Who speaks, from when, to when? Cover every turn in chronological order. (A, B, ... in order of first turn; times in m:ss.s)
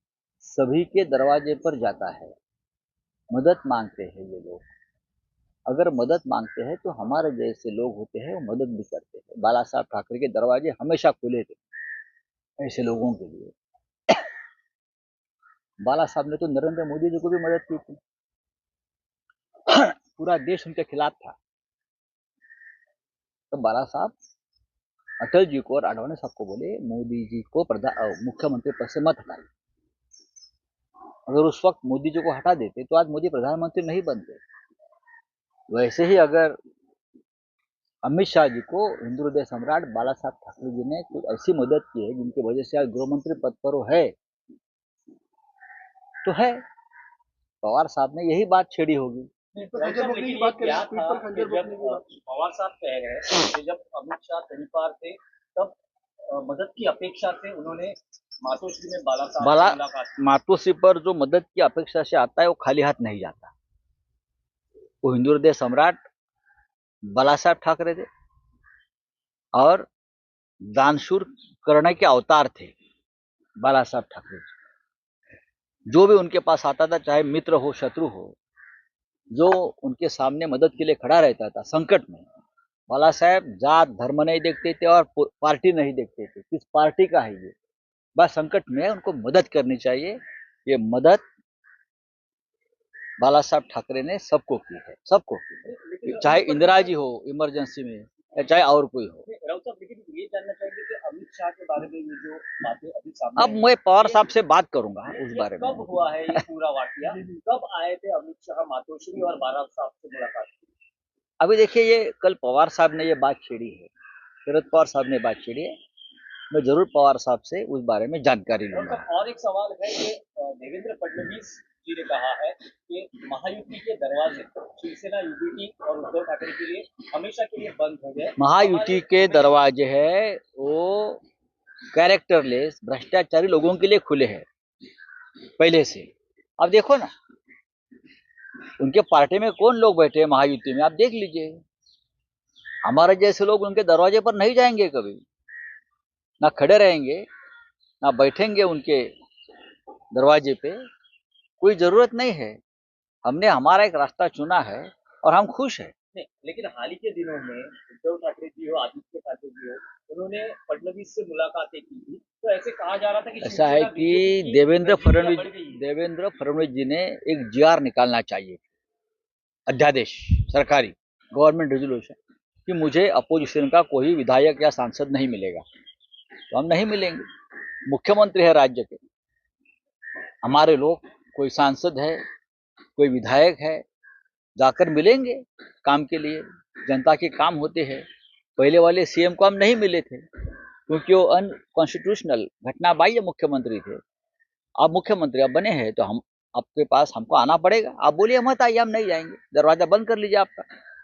0:00.4-0:02.3 A
0:03.3-0:04.6 A
0:05.7-0:11.6 A
0:12.6-0:13.5 A
0:15.8-0:18.0 A
0:19.7-0:21.4 A
0:23.5-0:24.1 A
0:25.2-0:29.5 A
0:31.3-0:34.4 A
0:35.7-0:36.6 A
0:38.0-0:44.1 A
0:46.2-0:46.6 A
0:47.6-0:49.3 A
0:49.5-0:52.0 B
0:49.8-0:55.8 C
0:56.3-1:00.2 C
0:59.4-1:03.5 A
1:05.0-1:06.0 A
1:07.1-1:08.1 A
1:09.6-1:09.8 A
1:10.7-1:12.7 A
1:13.6-1:14.5 A
1:15.9-1:18.4 A
1:19.3-1:22.3 A
1:22.9-1:27.5 A
1:28.2-1:31.2 A
1:33.2-1:39.3 A
1:35.6-1:36.9 C
1:39.3-1:44.2 C
1:43.4-1:46.4 A
1:45.1-1:50.6 C
1:51.4-1:53.9 A
1:54.5-1:55.7 A
1:56.5-1:59.0 A
1:58.7-2:09.6 C
2:08.4-2:11.2 A
2:11.9-2:14.5 A
2:15.6-2:16.1 A
2:16.6-2:17.1 A
2:18.8-2:21.6 A
2:22.8-2:25.2 A
2:26.4-2:27.3 A
2:28.0-2:29.1 A
2:30.1-2:30.8 A
2:31.6-2:32.6 A
2:33.2-2:35.9 A
2:36.1-2:45.8 C
2:43.4-2:48.6 A
2:49.7-2:55.6 A
2:56.5-2:57.2 A
2:57.9-2:59.0 A
3:00.4-3:02.2 A
3:03.0-3:03.8 A
3:04.6-3:08.0 A
3:08.6-3:14.0 A
3:14.8-3:20.6 A